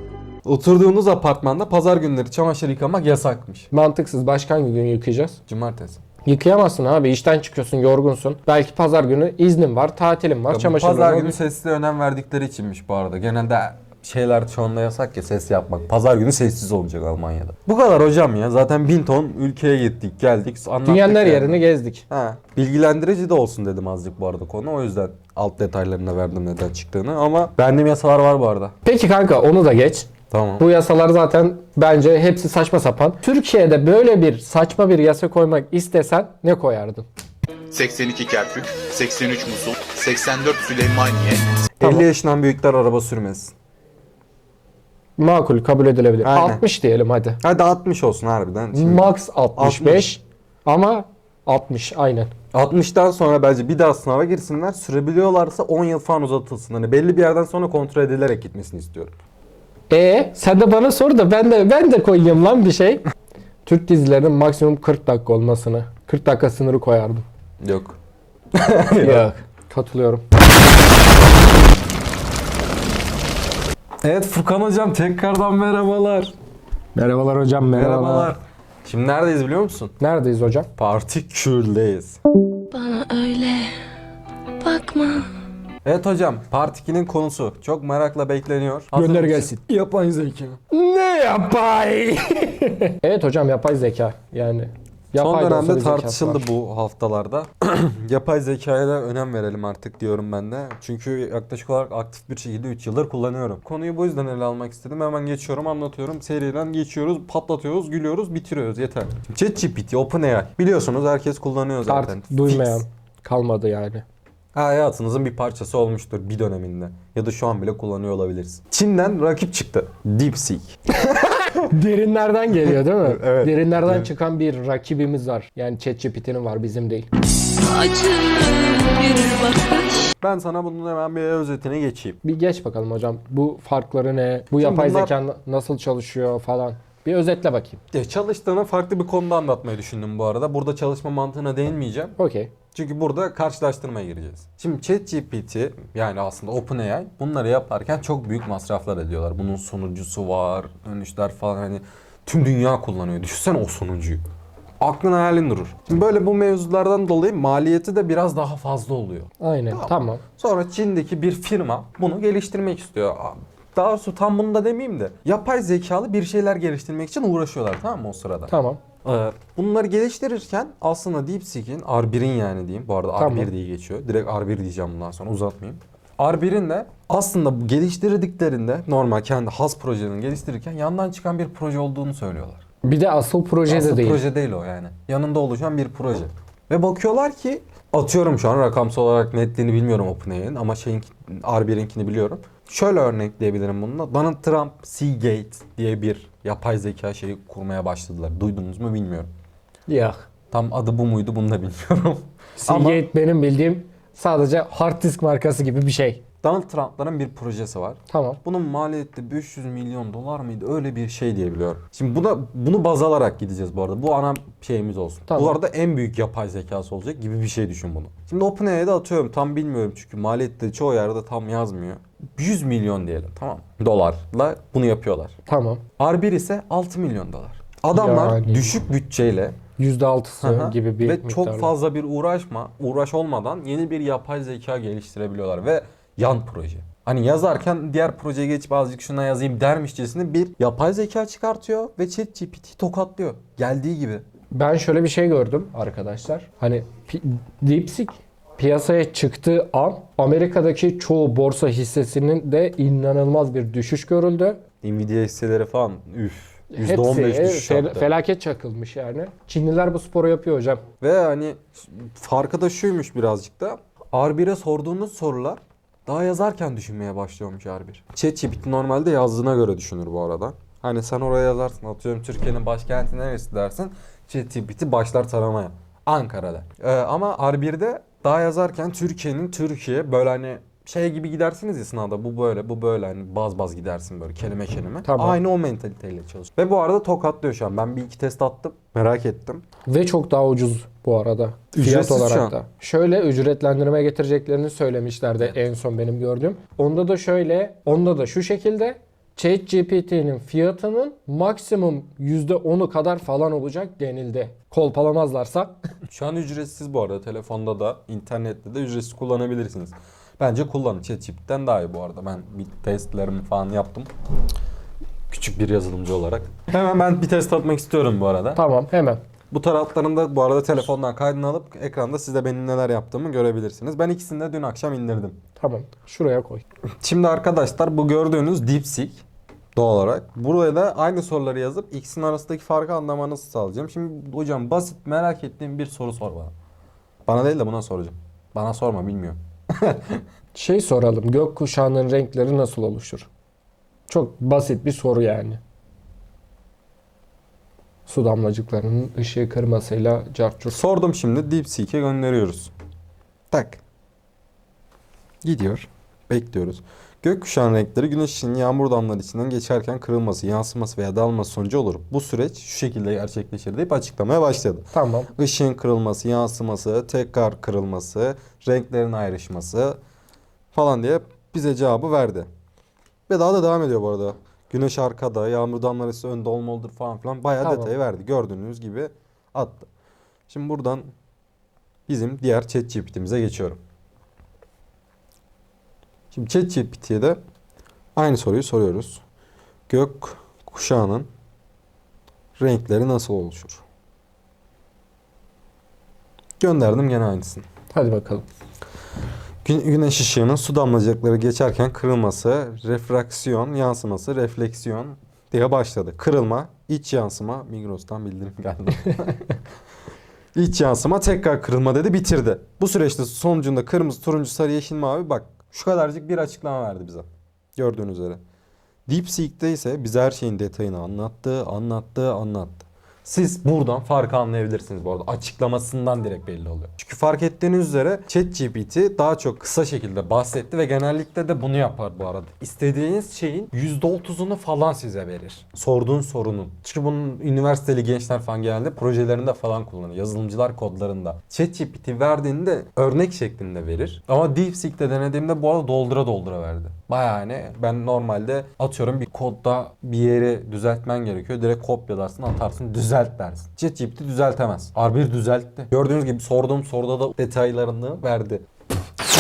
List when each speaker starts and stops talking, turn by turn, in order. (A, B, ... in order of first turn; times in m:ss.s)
0:00.4-0:03.7 A
0:03.7-0:05.4 B
0:05.5-0:06.0 A
0:06.2-0:11.4 B
0:10.5-0:28.7 A
0:20.9-0:22.0 B
0:28.8-0:30.1 B
0:30.3-0:30.7 A
0:30.6-0:37.1 B
0:37.7-0:41.5 C
0:41.8-0:43.5 A
0:41.8-0:42.1 B
0:45.2-0:47.4 B
0:46.2-0:46.6 A
0:47.4-0:50.2 A
0:48.7-0:52.3 B
0:52.5-0:59.2 A
0:59.9-1:03.0 B
1:03.7-1:07.2 B
1:07.6-1:08.0 A
1:08.5-1:09.3 A
1:09.0-1:10.2 B
1:14.0-1:16.3 A
1:17.0-1:18.4 B
1:17.7-1:20.0 A
1:20.0-1:20.7 B
1:20.8-1:22.2 A
1:22.7-1:23.7 D
1:24.6-1:25.3 D
1:25.8-1:29.6 A
1:28.9-1:36.4 B
1:35.2-1:52.8 A
1:51.9-1:54.0 B
1:54.5-2:01.4 A
2:01.7-2:07.1 B
2:02.7-2:04.1 A
2:07.6-2:10.1 D
2:10.2-2:12.2 A
2:12.2-2:17.8 B
2:14.6-2:15.1 A
2:17.9-2:22.2 A
2:22.2-2:22.5 B
2:22.7-2:34.2 A
2:34.8-3:02.6 A
2:39.4-2:40.2 B
2:48.5-2:48.8 B
2:53.2-2:53.5 B
3:02.8-3:04.2 B
3:03.7-3:19.3 A
3:19.9-3:20.2 B
3:20.5-3:23.0 A
3:22.6-3:26.2 B
3:26.4-3:45.4 A
3:28.1-3:28.4 B
3:35.3-3:35.6 B
3:45.5-3:45.8 B
3:46.0-3:49.6 A
3:47.9-3:48.7 B
3:49.8-3:51.7 B
3:50.4-4:04.2 A
4:04.5-4:14.6 B
4:14.8-4:18.1 A
4:16.7-4:20.8 B
4:21.0-4:49.6 A
4:45.0-4:45.4 B
4:49.9-5:05.8 B
4:51.7-4:52.6 A
5:06.1-5:14.1 A
5:15.3-5:18.6 A
5:18.6-5:19.2 B
5:19.5-5:25.4 A
5:25.6-5:26.6 B
5:27.0-5:29.2 A
5:29.8-5:36.5 A
5:37.3-5:40.2 A
5:40.6-5:43.3 B
5:44.1-5:45.6 B
5:48.1-5:50.8 B
5:50.7-5:52.7 A
5:53.5-5:53.8 A
5:55.4-6:10.0 A
6:04.9-6:05.3 B
6:10.7-6:12.5 A
6:13.3-6:19.9 A
6:17.6-6:17.9 B
6:20.5-6:21.1 A
6:22.1-6:23.8 A
6:26.3-6:27.4 A
6:28.2-6:29.2 A
6:29.9-6:31.3 A
6:32.6-6:33.8 A
6:36.6-6:37.6 A
6:37.9-6:38.5 B
6:39.6-6:49.6 A
6:50.6-6:58.4 A
6:59.1-7:38.6 A